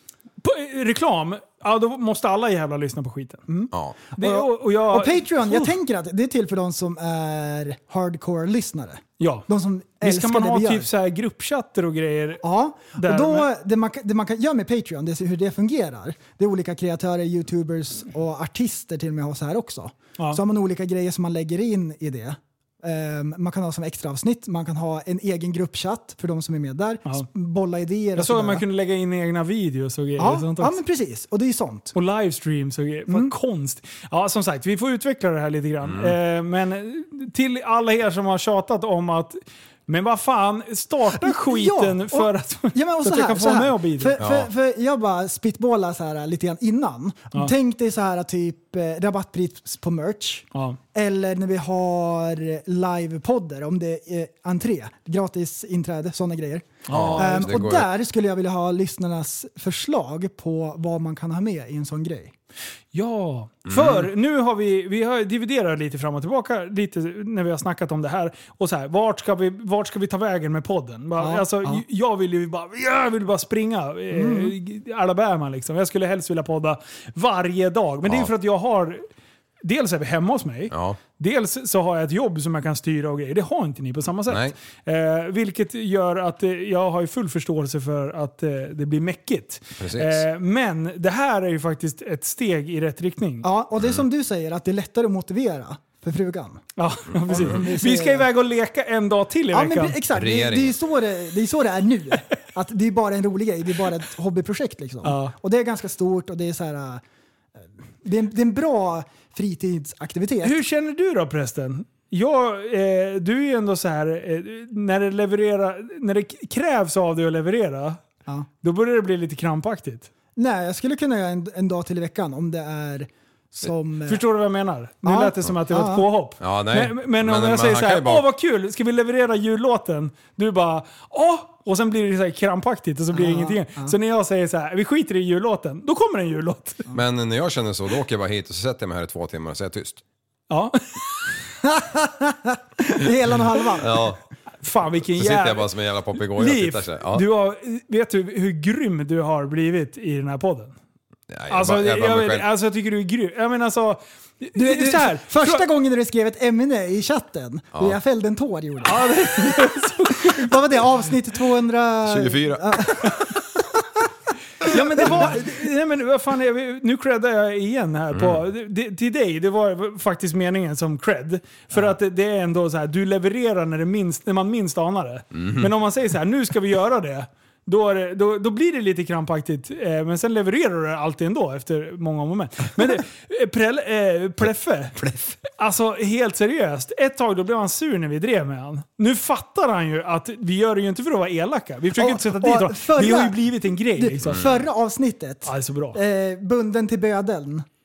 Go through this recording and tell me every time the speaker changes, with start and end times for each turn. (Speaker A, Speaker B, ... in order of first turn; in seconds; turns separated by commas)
Speaker A: 0.4-3.4, Speaker B: 3.5-10.9, Speaker C: 3.7-4.0, Speaker A: 4.2-5.8, Speaker A: 9.2-9.5, Speaker A: 10.0-13.5, Speaker B: 12.4-28.6, Speaker A: 28.1-30.8, Speaker B: 30.2-31.9, Speaker A: 31.9-44.2, Speaker B: 33.1-33.3, Speaker C: 35.8-36.2, Speaker B: 41.1-62.3, Speaker C: 44.2-44.5, Speaker A: 56.9-57.5, Speaker C: 56.9-57.9, Speaker A: 62.9-79.0, Speaker C: 63.7-64.1, Speaker B: 71.2-71.8, Speaker B: 74.1-74.5, Speaker C: 78.0-78.3, Speaker A: 79.6-93.5, Speaker C: 80.7-81.0, Speaker C: 84.3-84.5, Speaker C: 89.8-90.2, Speaker B: 93.4-96.6, Speaker A: 96.8-100.0, Speaker C: 97.2-97.6, Speaker B: 97.3-98.3, Speaker B: 99.5-107.0, Speaker C: 100.1-100.8, Speaker A: 105.0-105.3, Speaker B: 108.0-110.5, Speaker A: 110.4-118.0, Speaker A: 118.6-120.1, Speaker B: 120.3-124.2, Speaker A: 124.0-136.9, Speaker B: 125.0-126.0, Speaker C: 126.4-128.2, Speaker B: 133.1-133.9, Speaker C: 136.9-140.0, Speaker A: 140.5-141.3, Speaker B: 141.6-144.0, Speaker C: 143.8-144.2, Speaker A: 144.6-150.7, Speaker C: 145.1-147.2, Speaker C: 151.3-152.5, Speaker A: 151.5-155.7, Speaker B: 154.6-163.2, Speaker A: 158.8-160.8, Speaker C: 162.1-163.2, Speaker A: 164.6-194.4, Speaker B: 164.6-165.5, Speaker C: 168.1-168.4, Speaker C: 175.3-175.7, Speaker C: 185.0-185.3, Speaker B: 192.0-193.4, Speaker B: 193.9-197.7, Speaker C: 194.2-194.6, Speaker A: 195.4-196.0